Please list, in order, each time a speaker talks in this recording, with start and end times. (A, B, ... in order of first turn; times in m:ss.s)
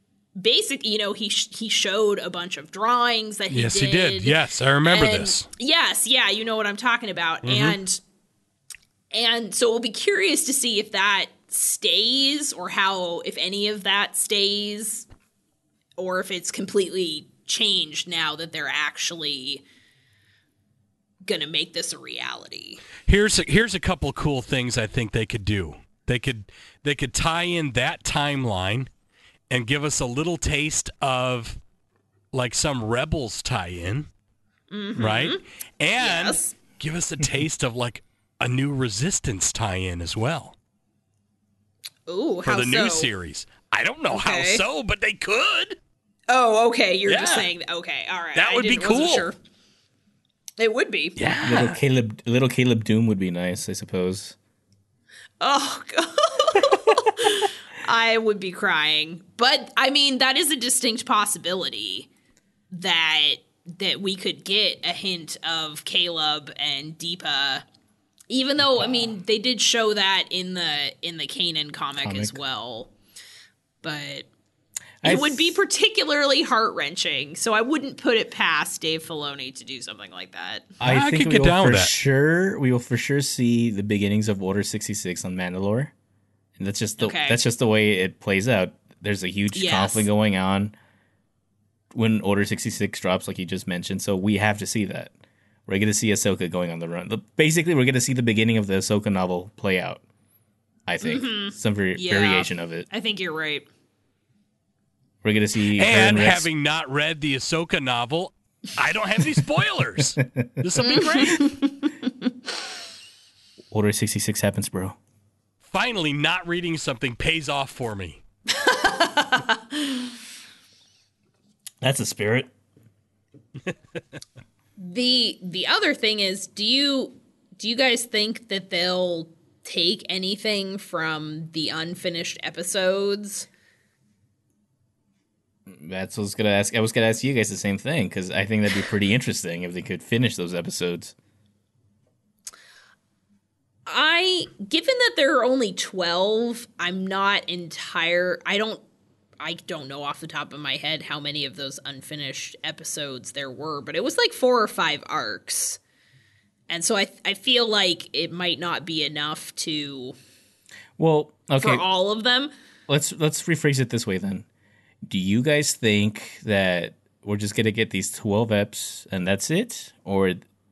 0:00.4-0:08.0 A
0:03.5-0:05.5 B
0:07.4-0:07.8 B
0:09.1-0:15.1 A
0:16.0-0:19.6 A
0:21.2-0:22.9 A
0:23.1-0:28.9 B
0:29.5-0:31.6 B
0:32.3-0:34.1 B
0:34.7-0:35.4 A
0:35.0-0:40.6 B
0:36.0-0:36.6 A
0:42.1-0:43.1 A
0:42.4-0:45.8 B
0:44.1-0:44.6 A
0:46.3-0:49.4 A
0:47.1-0:47.5 B
0:48.4-0:49.3 B
0:50.6-0:51.7 A
0:51.2-0:51.8 B
0:51.4-0:54.4 C
0:55.4-1:02.1 A
1:02.7-1:07.6 A
1:08.3-1:12.9 A
1:08.6-1:09.1 C
1:12.0-1:12.4 C
1:13.8-1:14.3 A
1:15.0-1:15.6 C
1:15.0-1:20.7 A
1:20.8-1:25.9 C
1:20.8-1:21.9 B
1:26.6-1:30.7 C
1:27.0-1:27.4 A
1:29.5-1:30.1 A
1:31.9-1:35.1 C
1:35.7-1:40.0 C
1:40.9-1:42.9 C
1:41.0-1:43.7 A
1:45.2-1:46.5 C
1:45.7-1:51.6 B
1:50.8-1:52.1 A
1:53.7-1:55.0 C
1:55.6-1:58.2 B
1:58.5-2:00.1 A
2:01.8-2:02.5 C
2:04.8-2:13.5 A
2:15.7-2:21.1 C
2:23.9-2:28.8 A
2:29.4-2:35.8 A
2:36.7-2:40.2 A
2:41.0-2:41.8 C
2:41.6-2:42.5 A
2:42.9-2:44.4 C
2:45.1-2:50.4 C